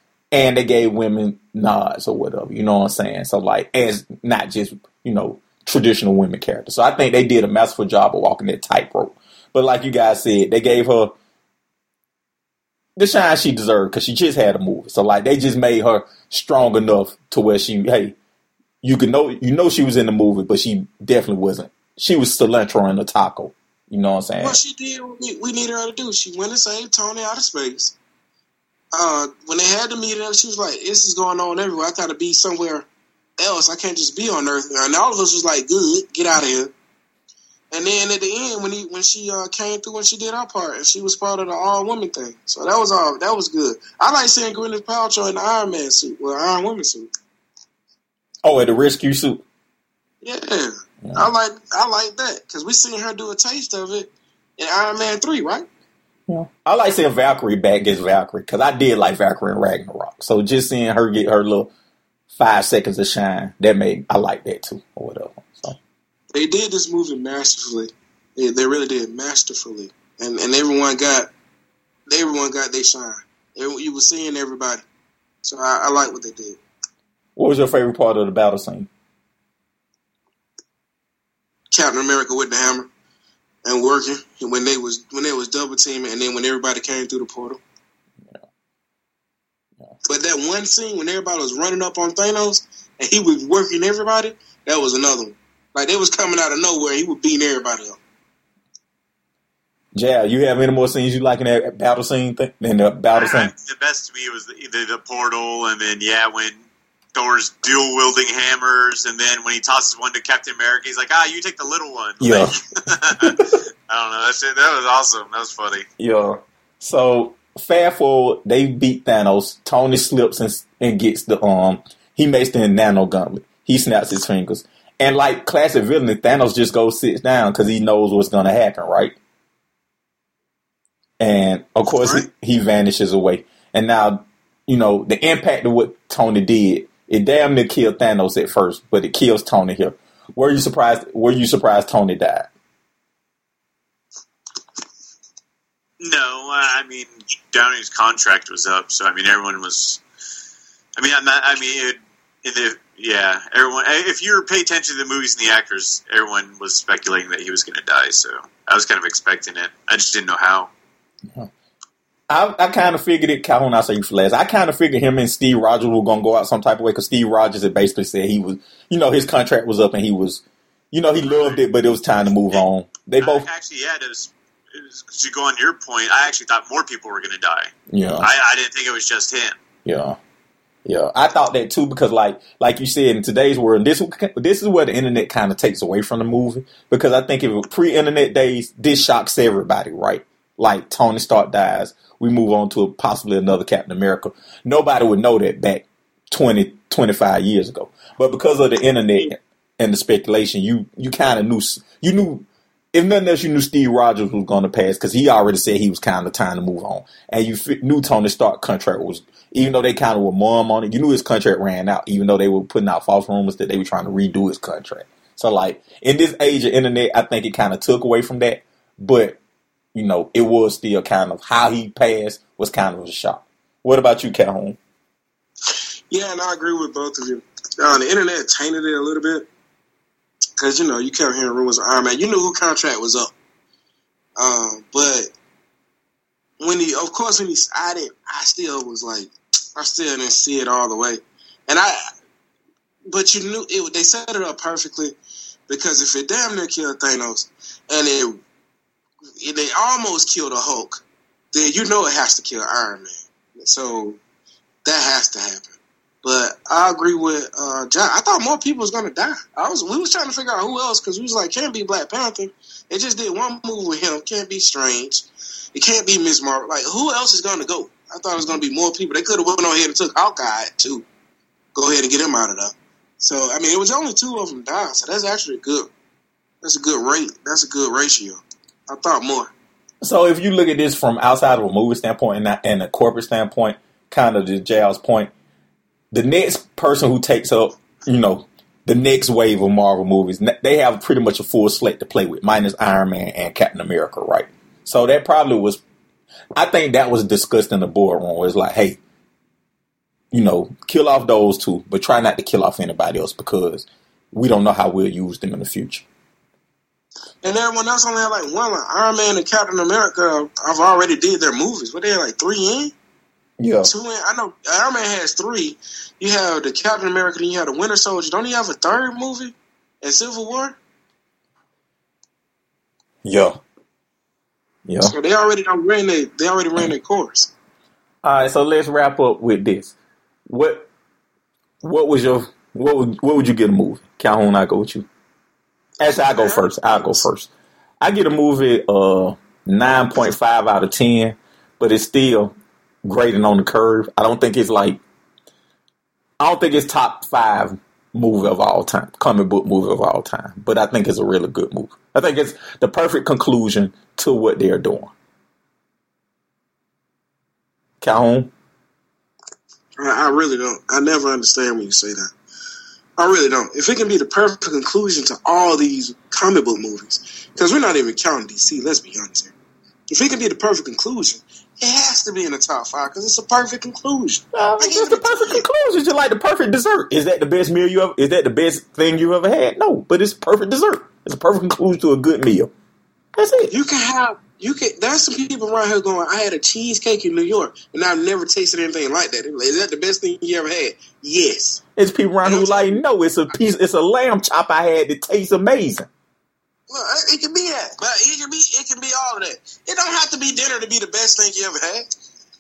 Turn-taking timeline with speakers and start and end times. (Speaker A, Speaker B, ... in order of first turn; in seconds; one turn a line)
Speaker A: 0.3-11.1
Speaker A: 13.0-18.2
Speaker A: 18.8-24.6
Speaker B: 24.4-27.9
Speaker B: 28.9-32.9
Speaker B: 33.4-36.7
Speaker B: 37.7-47.1
Speaker A: 48.4-49.4
Speaker B: 50.2-55.7
Speaker A: 51.0-51.3
Speaker A: 56.3-61.7
Speaker A: 62.3-65.8
Speaker B: 66.3-71.3
Speaker B: 72.1-74.8
Speaker B: 75.4-76.6
Speaker A: 77.4-78.9
Speaker B: 81.7-82.9
Speaker B: 83.6-87.6
Speaker B: 90.1-98.0
Speaker A: 99.9-103.5
Speaker C: 103.1-106.6
Speaker C: 107.1-115.9
Speaker A: 112.2-112.6
Speaker A: 113.2-113.5
Speaker A: 116.0-129.2
Speaker A: 131.2-142.5
Speaker C: 146.0-150.0
Speaker C: 151.0-160.7
Speaker A: 162.3-173.5
Speaker C: 173.2-179.6
Speaker A: 177.9-178.3
Speaker A: 179.8-180.2
Speaker A: 180.9-219.4
Speaker A: 219.9-224.8
Speaker B: 226.1-229.5
Speaker B: 230.6-233.3
Speaker B: 234.4-235.3
Speaker B: 236.6-242.0
Speaker B: 243.1-245.2
Speaker B: 245.7-248.4
Speaker B: 249.4-254.2
Speaker B: 254.8-271.1
Speaker B: 271.8-275.9
Speaker B: 276.6-279.5
Speaker A: 280.0-285.3
Speaker A: 286.1-295.8
Speaker A: 296.6-299.0
Speaker A: 300.3-306.1
Speaker B: 307.4-312.9
Speaker A: 313.6-313.9
Speaker B: 313.9-320.8
Speaker A: 323.2-323.6
Speaker A: 324.9-325.1
Speaker B: 325.0-327.5
Speaker A: 328.2-329.9
Speaker A: 330.5-330.9
Speaker A: 331.8-335.1
Speaker B: 336.0-337.3
Speaker A: 336.0-337.5
Speaker A: 338.0-345.0
Speaker A: 346.4-355.1
Speaker A: 358.0-358.5
Speaker B: 360.0-362.3
Speaker B: 363.2-369.5
Speaker B: 370.1-375.7
Speaker A: 374.5-382.7
Speaker A: 383.4-383.7
Speaker B: 383.7-391.8
Speaker A: 392.0-396.1
Speaker B: 392.4-393.0
Speaker B: 396.9-402.1